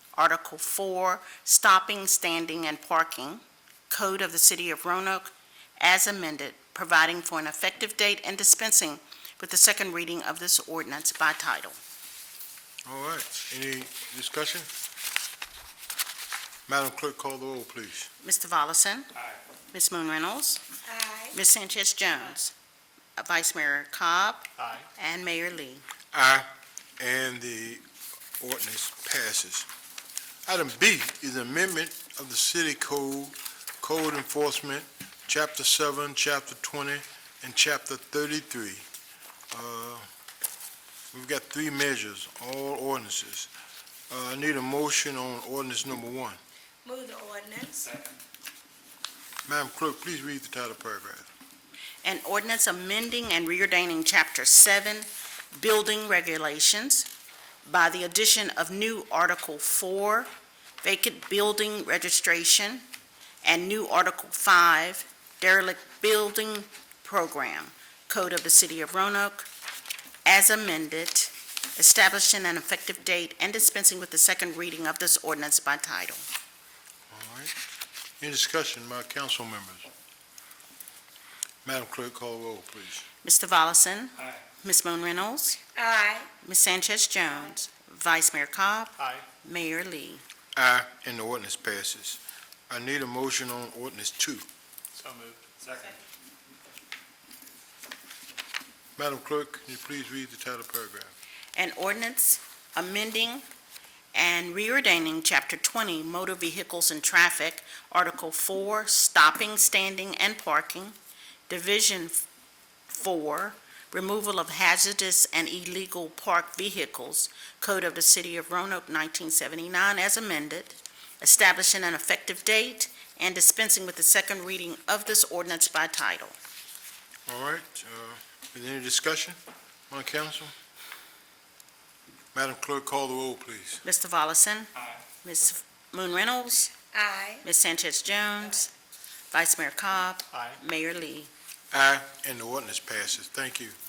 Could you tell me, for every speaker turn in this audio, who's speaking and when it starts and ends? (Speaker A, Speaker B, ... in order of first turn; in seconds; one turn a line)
Speaker A: 0.1-11.8
Speaker B: 12.9-14.7
Speaker B: 16.7-18.1
Speaker A: 18.2-19.1
Speaker A: 19.7-20.6
Speaker C: 20.9-21.4
Speaker A: 21.3-22.5
Speaker A: 23.2-25.8
Speaker D: 24.6-24.9
Speaker B: 26.1-27.8
Speaker B: 28.4-29.7
Speaker B: 30.5-38.9
Speaker B: 39.5-40.1
Speaker B: 41.1-43.5
Speaker B: 44.1-46.4
Speaker C: 46.9-47.9
Speaker B: 49.5-51.3
Speaker A: 52.0-57.1
Speaker A: 57.6-60.3
Speaker A: 60.8-62.9
Speaker A: 63.4-69.5
Speaker A: 70.2-76.2
Speaker B: 77.1-77.5
Speaker B: 78.2-79.9
Speaker B: 81.7-83.0
Speaker A: 83.2-85.6
Speaker C: 85.8-86.3
Speaker A: 86.4-90.2
Speaker D: 89.0-89.2
Speaker B: 90.6-94.5
Speaker D: 95.0-96.0
Speaker B: 99.0-101.1
Speaker A: 101.5-103.5
Speaker A: 104.1-111.0
Speaker A: 111.5-112.2
Speaker A: 112.9-126.3
Speaker B: 127.3-129.4
Speaker B: 129.9-130.5
Speaker B: 132.3-133.8
Speaker A: 133.8-134.7
Speaker A: 135.2-136.7
Speaker C: 136.9-137.4
Speaker A: 137.4-138.7
Speaker A: 139.3-141.3
Speaker D: 140.3-140.6
Speaker B: 141.7-143.8